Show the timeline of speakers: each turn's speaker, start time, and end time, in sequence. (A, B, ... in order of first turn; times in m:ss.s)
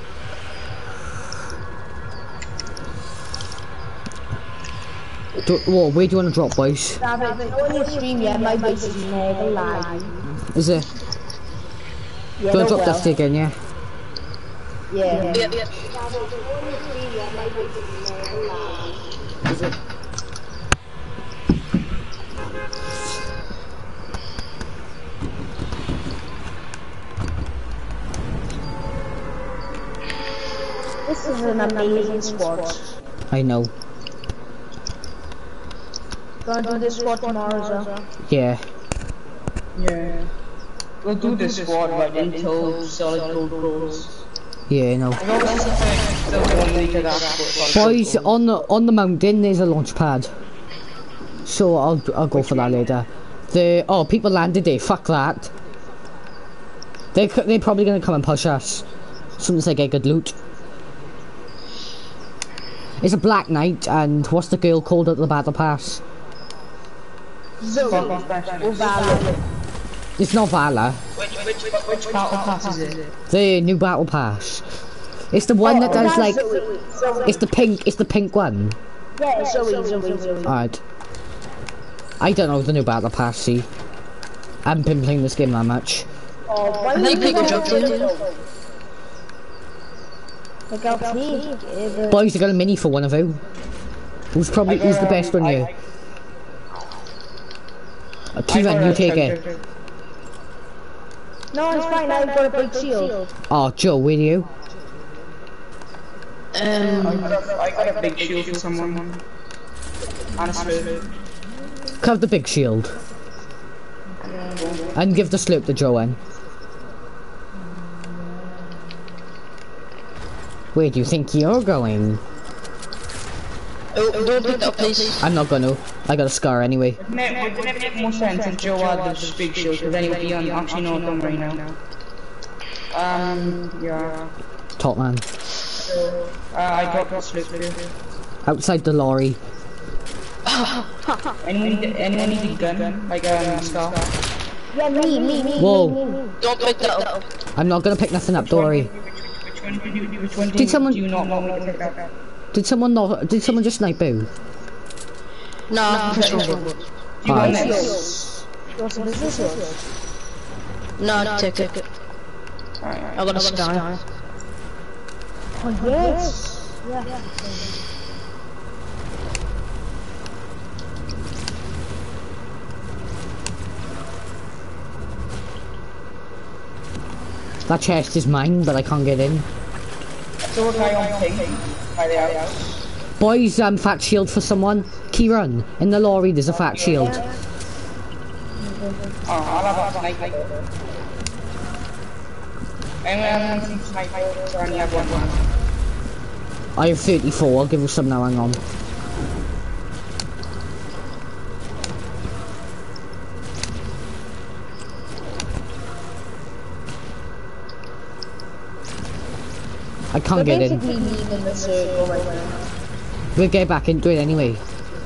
0:05.4-0:07.0 A
0:07.0-0:10.2 B
0:10.4-0:10.9 A
0:12.4-0:13.2 B
0:12.5-0:13.6 A
0:14.9-0:18.9 B
0:15.2-0:15.7 C
0:31.1-0:32.9 B
0:33.3-0:33.7 A
0:36.4-0:37.9 B
0:38.2-0:38.6 A
0:39.8-0:40.3 D
0:41.0-0:44.1 D
0:44.7-0:45.2 A
0:45.2-0:48.3 D
0:47.7-0:50.3 A
0:51.4-0:55.5 A
0:52.3-0:52.8 D
0:57.1-0:58.9 A
0:59.4-1:00.4 A
1:03.0-1:06.0 A
1:07.6-1:09.4 B
1:07.8-1:09.3 D
1:10.2-1:11.0 A
1:11.4-1:13.0 D
1:13.3-1:14.7 A
1:15.3-1:16.5 A
1:15.6-1:17.4 B
1:15.9-1:16.2 D
1:17.2-1:18.8 A
1:19.2-1:20.6 B
1:20.5-1:20.8 A
1:22.2-1:23.7 A
1:24.6-1:26.1 A
1:26.5-1:28.3 B
1:26.9-1:28.0 C
1:27.0-1:27.9 D
1:30.7-1:32.2 B
1:32.1-1:33.4 A
1:34.3-1:35.7 A
1:34.9-1:35.6 D
1:38.4-1:39.4 A
1:38.5-1:39.6 D
1:41.5-1:43.3 B
1:43.5-1:44.5 A
1:46.5-1:47.4 C
1:47.0-1:49.2 D
1:50.4-1:51.0 D
1:52.0-1:53.0 A
1:54.6-1:55.0 D
1:54.9-1:56.2 A
2:00.7-2:02.2 A
2:03.9-2:05.2 C
2:05.2-2:07.0 A
2:07.0-2:11.8 D
2:12.9-2:14.3 D
2:14.8-2:15.2 A
2:15.8-2:17.9 D
2:18.4-2:19.4 A
2:21.4-2:24.1 D
2:24.7-2:26.3 B
2:25.6-2:26.0 A
2:26.4-2:27.2 C
2:27.6-2:28.9 A
2:28.8-2:32.1 D
2:30.6-2:31.0 A
2:32.5-2:34.3 A
2:35.7-2:36.8 C
2:36.0-2:36.7 D
2:37.2-2:38.2 D
2:37.2-2:37.9 A
2:37.3-2:39.8 B
2:41.0-2:41.9 C
2:42.8-2:43.3 D
2:43.2-2:44.0 C
2:45.6-2:47.2 B
2:57.7-2:59.5 A
3:00.5-3:02.6 D
3:03.2-3:07.2 A
3:06.7-3:07.2 D
3:06.9-3:07.4 B
3:08.6-3:09.2 B
3:09.2-3:10.6 D
3:13.0-3:15.5 D
3:16.8-3:18.6 A
3:30.1-3:30.9 A
3:30.3-3:32.6 B
3:33.4-3:34.6 A